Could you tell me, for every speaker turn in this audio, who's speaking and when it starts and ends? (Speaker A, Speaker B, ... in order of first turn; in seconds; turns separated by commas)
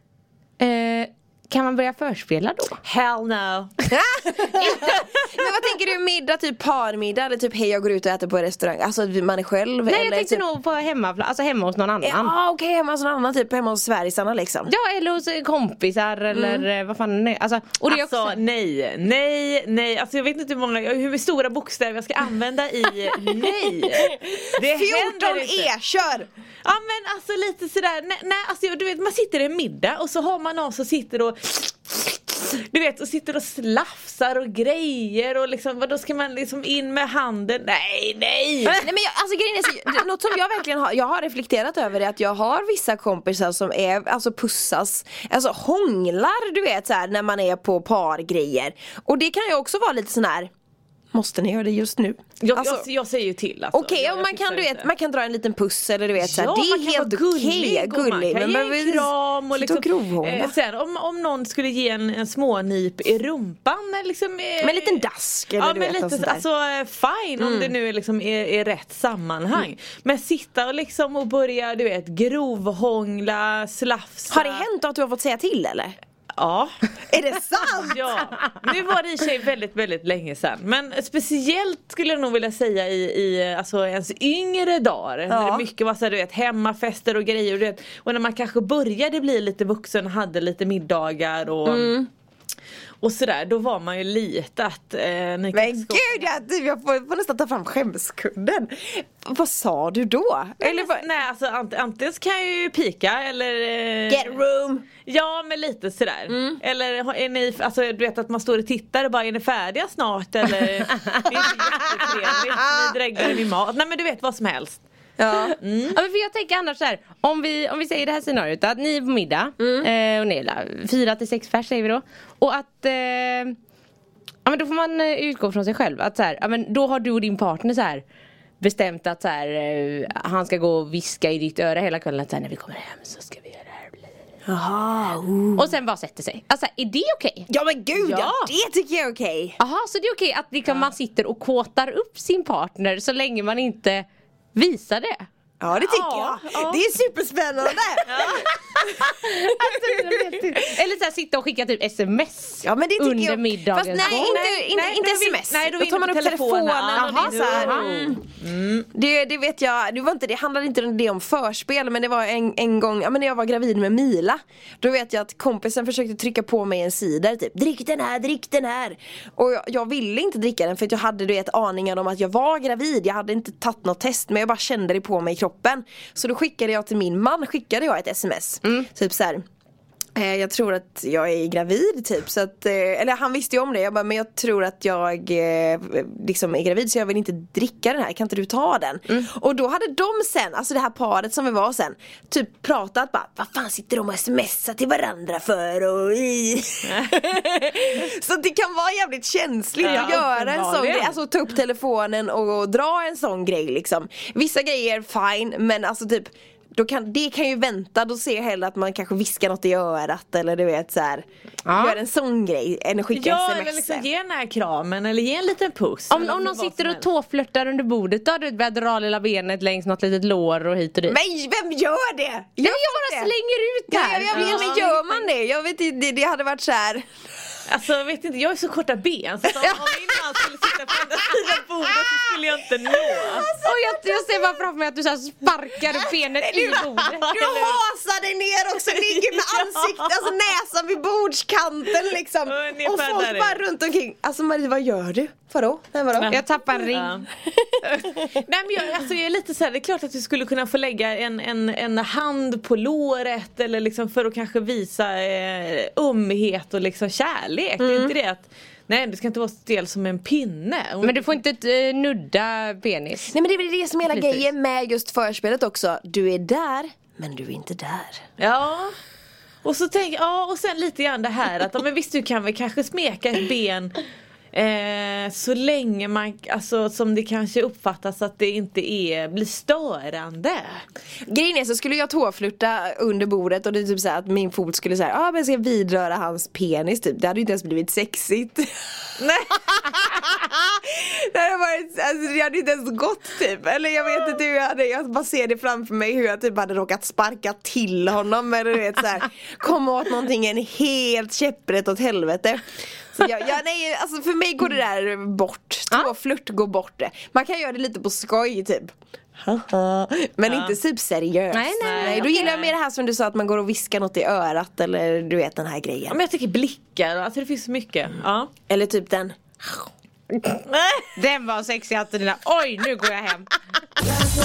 Speaker A: 0.6-2.8, Speaker B: 2.8-3.7, Speaker C: 3.9-10.4, Speaker A: 9.9-12.3, Speaker C: 12.0-14.7, Speaker A: 14.7-18.4, Speaker C: 16.3-16.6, Speaker B: 17.9-25.7, Speaker C: 24.1-26.3, Speaker B: 26.6-38.9, Speaker C: 38.7-50.5, Speaker C: 51.1-52.9, Speaker B: 52.4-54.9, Speaker C: 53.7-60.5, Speaker B: 56.2-65.0, Speaker C: 64.6-66.4, Speaker B: 65.6-74.7, Speaker C: 67.4-67.7, Speaker C: 74.3-76.0, Speaker B: 76.4-76.8, Speaker C: 77.1-78.2, Speaker B: 77.8-92.0, Speaker C: 85.3-85.7, Speaker C: 91.7-92.1, Speaker B: 93.0-96.3, Speaker C: 95.5-101.0, Speaker B: 100.6-104.4, Speaker C: 104.1-104.9, Speaker B: 105.1-114.8, Speaker C: 106.3-106.6, Speaker C: 112.5-112.8, Speaker C: 115.2-115.6, Speaker B: 115.6-116.0, Speaker A: 115.9-123.6, Speaker C: 119.6-119.9, Speaker A: 124.5-128.0, Speaker A: 128.6-134.0, Speaker C: 134.5-135.7, Speaker A: 135.6-137.5, Speaker C: 137.5-139.6, Speaker B: 138.0-138.5, Speaker A: 139.6-145.3, Speaker C: 145.6-150.5, Speaker B: 145.8-146.8, Speaker B: 148.1-148.5, Speaker A: 148.7-154.4, Speaker C: 152.6-158.2, Speaker B: 154.0-158.9, Speaker A: 156.9-157.9, Speaker C: 158.9-179.4, Speaker C: 180.2-214.1, Speaker B: 196.9-197.2, Speaker B: 199.8-201.2, Speaker A: 199.8-200.5, Speaker A: 211.7-212.0, Speaker B: 213.1-217.1, Speaker A: 216.1-221.2, Speaker C: 221.1-223.3, Speaker A: 222.6-225.3, Speaker C: 223.9-227.1, Speaker B: 224.3-224.8, Speaker B: 227.7-233.5, Speaker C: 229.6-230.4, Speaker C: 231.3-232.3, Speaker C: 232.9-234.6, Speaker A: 233.6-237.3, Speaker C: 235.9-246.9, Speaker B: 237.2-237.8, Speaker B: 238.9-240.2, Speaker B: 242.5-243.6, Speaker B: 246.2-247.3, Speaker A: 246.3-247.2, Speaker C: 247.4-248.3, Speaker B: 248.2-261.4, Speaker C: 257.8-258.1, Speaker A: 261.0-263.4, Speaker C: 263.3-268.3, Speaker A: 264.1-264.4, Speaker B: 268.4-268.9, Speaker B: 269.6-274.0, Speaker B: 274.5-280.8, Speaker C: 281.3-289.1, Speaker B: 289.2-289.9, Speaker C: 289.6-316.2, Speaker B: 310.5-310.8, Speaker A: 311.5-312.5, Speaker B: 311.8-312.7, Speaker B: 316.1-318.5, Speaker C: 318.7-319.4, Speaker B: 320.7-321.1, Speaker A: 321.1-323.5